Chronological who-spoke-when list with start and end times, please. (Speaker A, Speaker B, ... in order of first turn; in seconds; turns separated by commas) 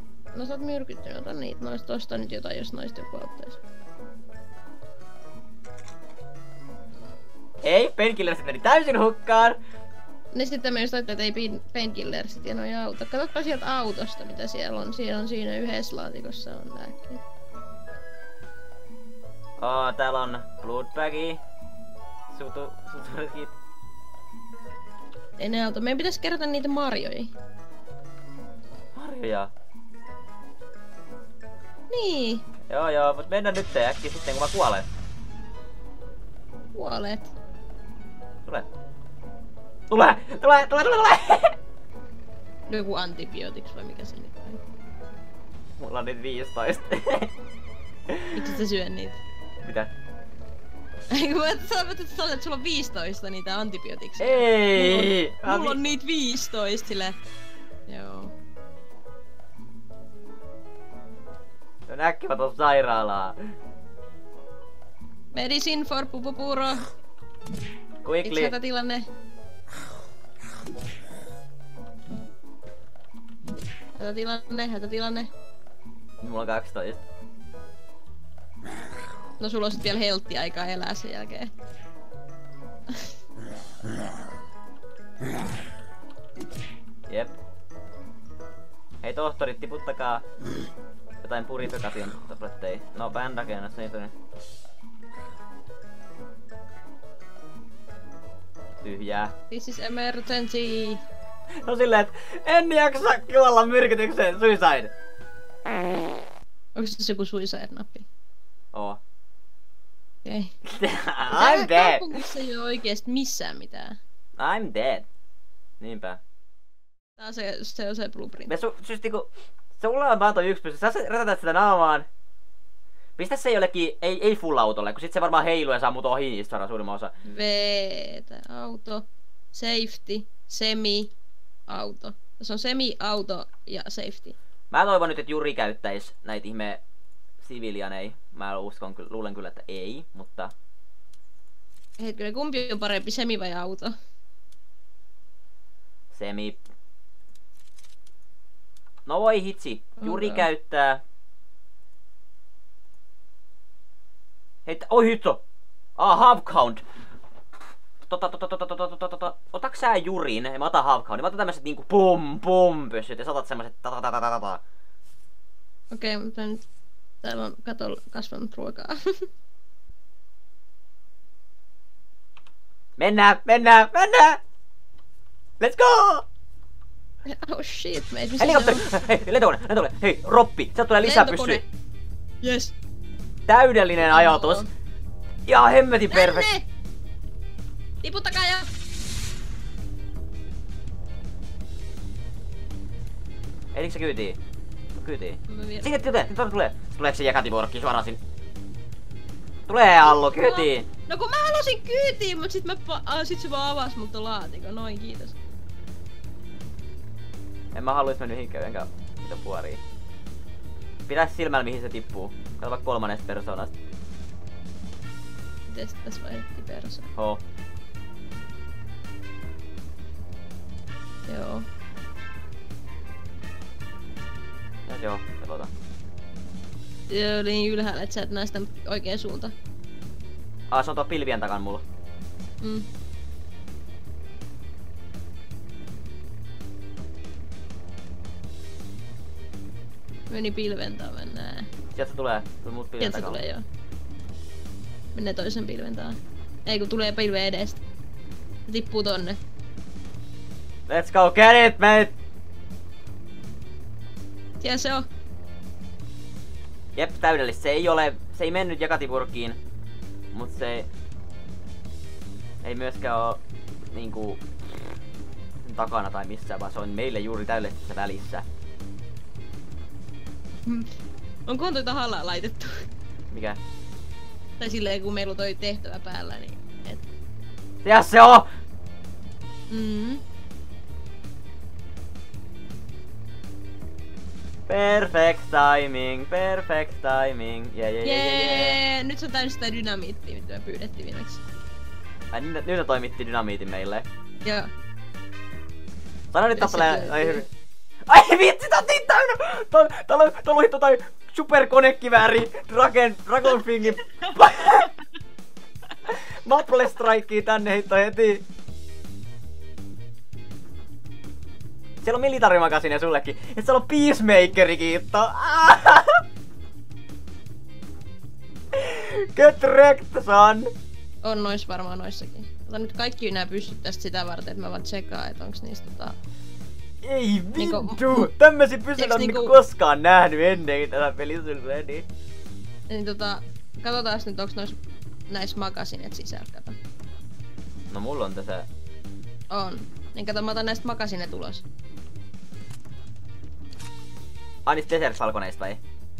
Speaker A: 0.3-3.6, Speaker B: 7.6-9.6, Speaker A: 10.3-17.2, Speaker B: 19.6-21.4, Speaker B: 22.3-23.5, Speaker A: 25.4-27.3, Speaker B: 28.9-29.5, Speaker A: 31.9-32.4, Speaker B: 32.7-34.9, Speaker A: 36.7-37.3, Speaker B: 39.9-41.5, Speaker A: 42.7-44.6, Speaker B: 45.8-47.3, Speaker B: 48.1-48.3, Speaker A: 48.3-49.2, Speaker B: 49.6-49.9, Speaker A: 51.1-57.2, Speaker B: 54.2-55.8, Speaker A: 57.9-58.3, Speaker B: 61.9-63.4, Speaker A: 65.3-66.9, Speaker B: 68.0-68.5, Speaker A: 68.2-69.1, Speaker A: 74.0-75.3, Speaker B: 76.2-77.0, Speaker A: 79.4-81.5, Speaker B: 87.1-87.4, Speaker B: 89.0-90.3, Speaker B: 91.2-94.1, Speaker B: 98.8-99.3, Speaker A: 99.5-101.0, Speaker B: 101.6-104.9, Speaker A: 106.8-108.1, Speaker B: 108.7-109.0, Speaker A: 110.2-110.5, Speaker B: 110.6-112.1, Speaker A: 111.3-114.0, Speaker B: 114.4-115.1, Speaker B: 115.8-116.2, Speaker A: 117.2-118.5, Speaker B: 118.5-122.1, Speaker B: 123.2-127.1, Speaker A: 127.2-131.1, Speaker A: 131.7-134.3, Speaker B: 134.7-136.8, Speaker B: 137.4-140.5, Speaker A: 142.0-143.9, Speaker B: 146.1-146.6, Speaker B: 149.1-151.0, Speaker A: 150.0-150.4, Speaker B: 154.7-155.4, Speaker B: 156.0-156.8, Speaker B: 158.1-164.6, Speaker A: 165.9-166.6, Speaker A: 167.2-169.0, Speaker B: 173.0-174.4, Speaker B: 175.6-176.2, Speaker A: 177.3-178.8, Speaker B: 178.4-181.6, Speaker A: 181.0-181.6, Speaker A: 182.4-182.7, Speaker B: 183.5-184.6, Speaker A: 184.0-184.7, Speaker B: 185.5-186.5, Speaker A: 186.1-186.7, Speaker A: 188.0-188.7, Speaker B: 193.7-194.4, Speaker B: 194.9-198.2, Speaker A: 195.5-195.9, Speaker B: 199.7-200.9, Speaker A: 200.0-205.4, Speaker B: 207.7-209.8, Speaker B: 211.1-213.7, Speaker A: 215.7-217.1, Speaker B: 217.2-217.4, Speaker A: 221.3-221.7, Speaker B: 224.9-225.7, Speaker A: 227.1-229.5, Speaker B: 230.7-231.8, Speaker A: 232.6-232.9, Speaker A: 240.3-241.7, Speaker B: 241.9-243.4, Speaker A: 243.0-243.6, Speaker A: 245.1-247.8, Speaker A: 248.7-249.4, Speaker B: 250.9-252.1, Speaker A: 254.6-255.1, Speaker B: 256.9-259.6, Speaker B: 260.3-260.9, Speaker B: 262.6-263.4, Speaker B: 263.9-264.4, Speaker B: 265.6-268.4, Speaker A: 270.6-270.9, Speaker A: 271.5-272.9, Speaker B: 273.3-273.6, Speaker A: 274.6-277.0, Speaker B: 277.8-278.5, Speaker A: 279.7-280.2, Speaker B: 284.7-288.8, Speaker A: 288.0-291.4, Speaker B: 292.3-294.1, Speaker A: 294.4-294.7, Speaker B: 296.3-297.5, Speaker A: 296.5-297.4, Speaker B: 298.1-304.9, Speaker B: 306.1-308.4, Speaker B: 312.0-316.2, Speaker B: 318.7-320.7, Speaker A: 321.2-326.2, Speaker B: 327.0-332.1, Speaker A: 327.6-328.3, Speaker A: 328.9-329.6, Speaker A: 332.9-334.8, Speaker A: 335.3-336.8, Speaker B: 337.9-338.7, Speaker A: 339.5-341.6, Speaker B: 344.6-345.8